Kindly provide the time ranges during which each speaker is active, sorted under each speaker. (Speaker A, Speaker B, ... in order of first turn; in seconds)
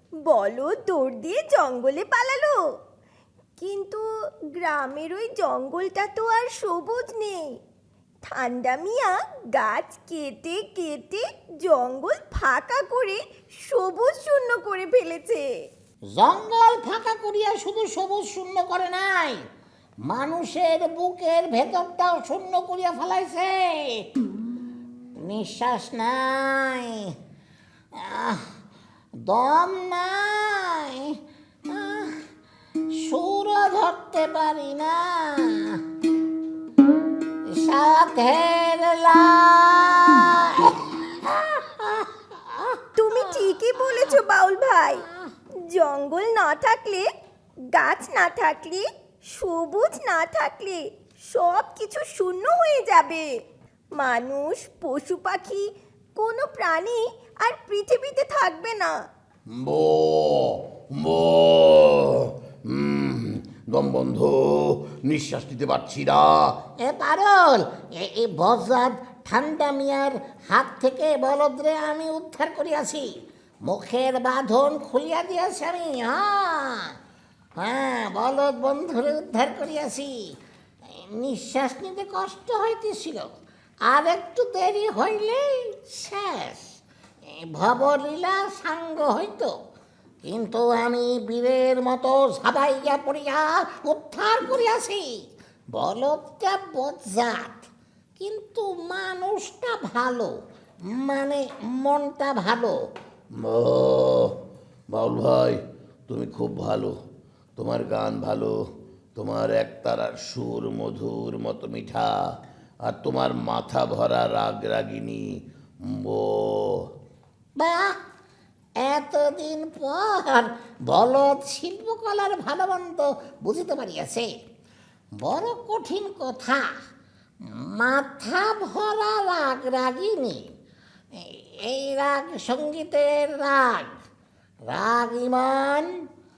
Speaker A: 0.3-2.6, 3.6-4.0, 4.5-7.4, 8.2-15.4, 43.0-45.0, 45.7-47.1, 47.7-53.3, 54.0-55.7, 56.2-58.9
Speaker B: 16.2-19.4, 20.1-24.0, 25.3-27.1, 27.9-28.4, 29.3-31.2, 31.7-32.2, 33.0-35.8, 37.5-44.2, 66.8-73.1, 73.7-76.9, 77.6-80.1, 81.0-83.3, 83.9-86.8, 87.5-89.5, 90.2-95.1, 95.7-100.3, 100.9-102.8, 117.6-118.0, 118.8-124.3, 125.2-126.7, 127.5-130.4, 131.2-133.9, 134.7-135.9
Speaker C: 59.6-66.6, 103.4-104.2, 104.9-107.0, 107.6-108.5, 109.2-112.1, 112.9-115.2, 116.0-116.4